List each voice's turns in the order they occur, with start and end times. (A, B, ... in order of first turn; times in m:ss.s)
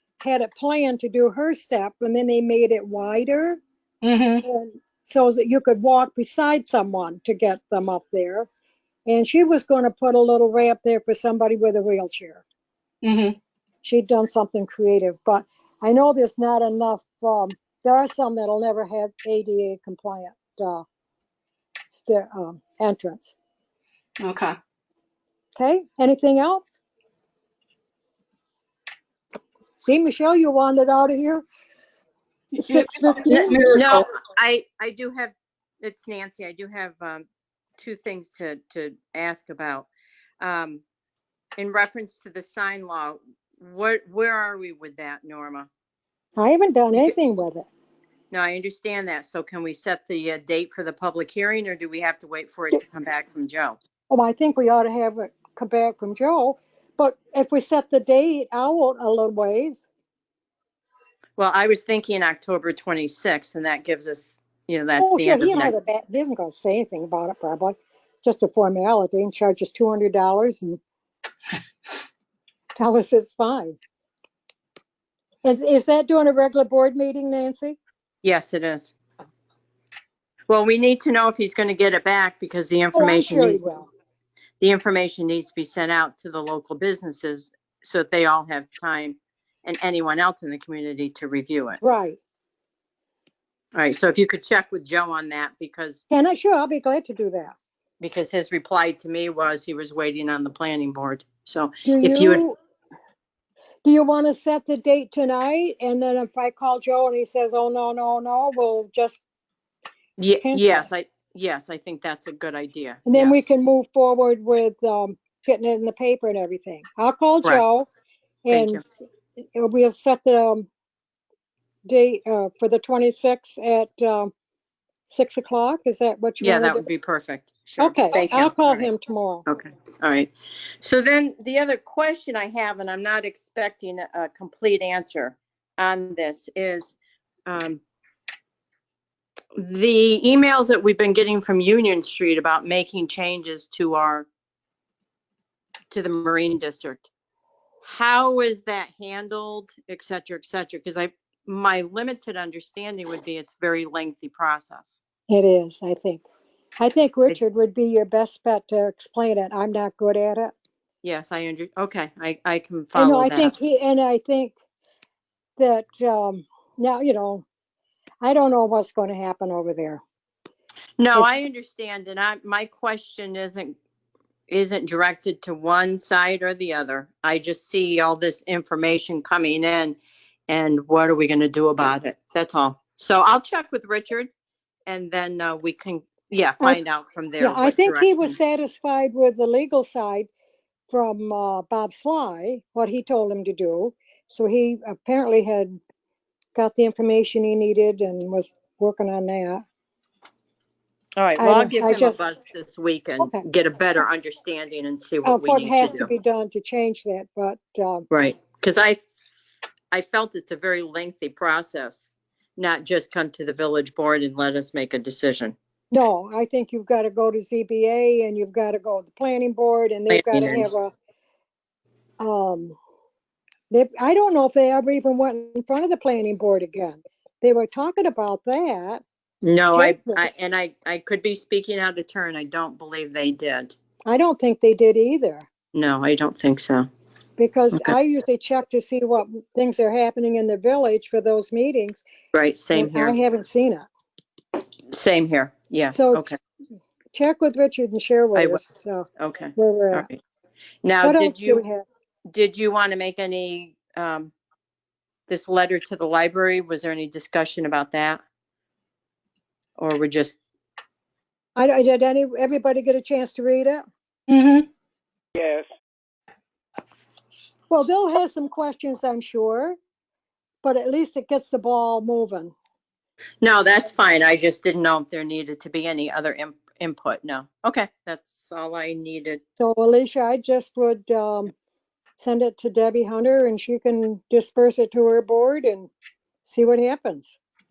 0:00.2-0:03.6 A
0:04.0-0:04.4 B
0:04.4-0:08.5 A
0:09.0-0:12.4 A
0:13.0-0:13.4 B
0:13.8-0:20.8 A
0:21.9-0:23.4 A
0:24.2-0:24.5 B
0:25.6-0:26.8 A
0:29.8-0:31.4 A
0:32.5-0:33.6 A
0:32.6-0:34.0 B
0:33.3-0:37.2 C
0:37.8-0:39.9 C
0:40.4-0:40.8 C
0:41.6-0:45.7 C
0:46.4-0:47.7 A
0:48.3-0:53.8 C
0:54.1-0:59.9 A
1:01.4-1:05.7 C
1:05.0-1:10.8 A
1:12.8-1:13.8 A
1:15.4-1:17.8 A
1:18.2-1:18.9 C
1:20.5-1:23.6 C
1:22.9-1:23.9 A
1:24.6-1:31.8 C
1:31.8-1:32.2 A
1:33.7-1:36.1 C
1:36.1-1:37.5 A
1:38.0-1:42.4 C
1:41.8-1:42.6 A
1:43.8-1:49.2 A
1:50.2-1:53.4 C
1:50.4-1:50.8 A
1:53.0-1:57.9 A
1:58.4-2:00.7 A
1:58.5-1:58.8 C
2:01.8-2:04.3 A
2:05.0-2:06.9 A
2:06.4-2:08.9 C
2:07.8-2:09.4 A
2:09.5-2:17.8 C
2:19.6-2:24.3 C
2:25.9-2:27.1 C
2:27.8-2:35.0 C
2:35.3-2:36.2 A
2:36.8-2:40.5 A
2:41.0-2:43.5 C
2:42.9-2:44.5 A
2:45.6-2:47.4 A
2:48.2-2:50.0 A
2:51.0-2:53.8 C
2:51.1-2:51.4 A
2:54.5-3:00.0 C
3:00.5-3:04.3 C
3:04.9-3:08.4 C
3:07.4-3:10.3 A
3:10.9-3:15.8 A
3:16.5-3:19.6 A
3:21.2-3:26.1 C
3:21.4-3:22.2 A
3:25.2-3:28.0 A
3:28.1-3:29.0 C
3:29.9-3:35.5 C
3:35.9-3:40.9 A
3:40.1-3:40.7 C
3:42.2-3:42.8 A
3:43.7-3:49.0 A
3:49.4-3:53.8 C
3:49.7-3:50.3 A
3:54.0-3:55.5 A
3:55.7-3:56.9 C
3:57.4-4:02.0 A
4:02.3-4:03.2 C
4:02.7-4:03.9 A
4:04.9-4:06.4 C
4:05.9-4:06.3 A
4:07.1-4:10.1 A
4:08.3-4:08.6 C
4:09.2-4:10.2 C
4:10.8-4:11.6 C
4:11.0-4:11.8 A
4:12.3-4:14.3 C
4:15.3-4:18.2 C
4:19.8-4:20.4 C
4:21.6-4:23.8 A
4:24.3-4:24.7 B
4:27.7-4:29.8 A
4:30.6-4:32.5 A
4:33.4-4:39.4 C
4:39.6-4:41.5 A
4:42.2-4:45.9 A
4:46.4-4:47.4 A